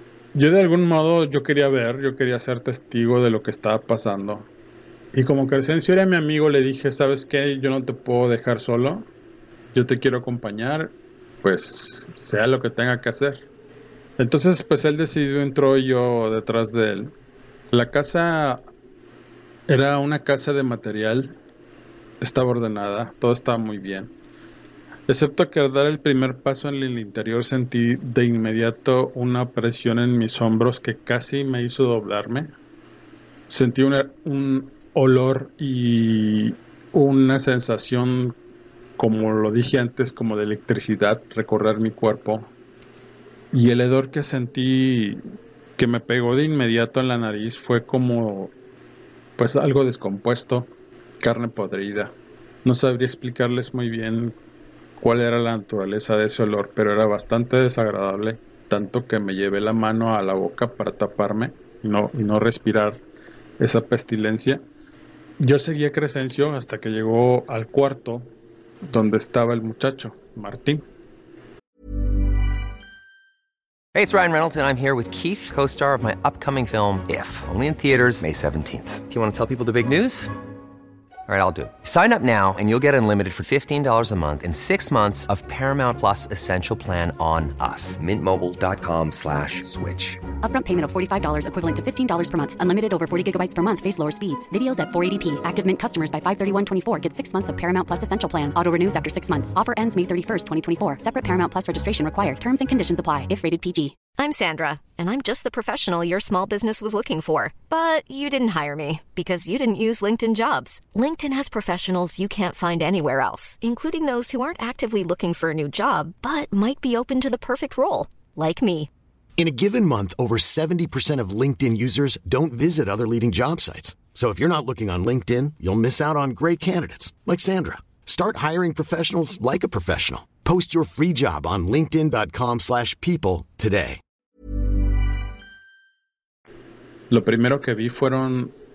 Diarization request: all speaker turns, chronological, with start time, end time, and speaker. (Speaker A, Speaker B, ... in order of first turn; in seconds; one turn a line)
Speaker A: 0.3-4.5
Speaker A: 5.1-9.1
Speaker A: 9.7-13.4
Speaker A: 14.2-17.1
Speaker A: 17.7-18.6
Speaker A: 19.7-21.4
Speaker A: 22.2-24.1
Speaker A: 25.1-32.5
Speaker A: 33.5-38.3
Speaker A: 39.0-42.5
Speaker A: 43.5-45.2
Speaker A: 45.8-48.5
Speaker A: 49.4-52.1
Speaker A: 52.6-54.3
Speaker A: 55.0-63.0
Speaker A: 63.6-64.6
Speaker A: 65.4-68.2
Speaker A: 68.8-70.8
Speaker B: 73.9-80.3
Speaker B: 81.3-90.2
Speaker C: 90.4-104.0
Speaker D: 104.2-118.9
Speaker E: 119.4-134.0
Speaker A: 137.1-138.5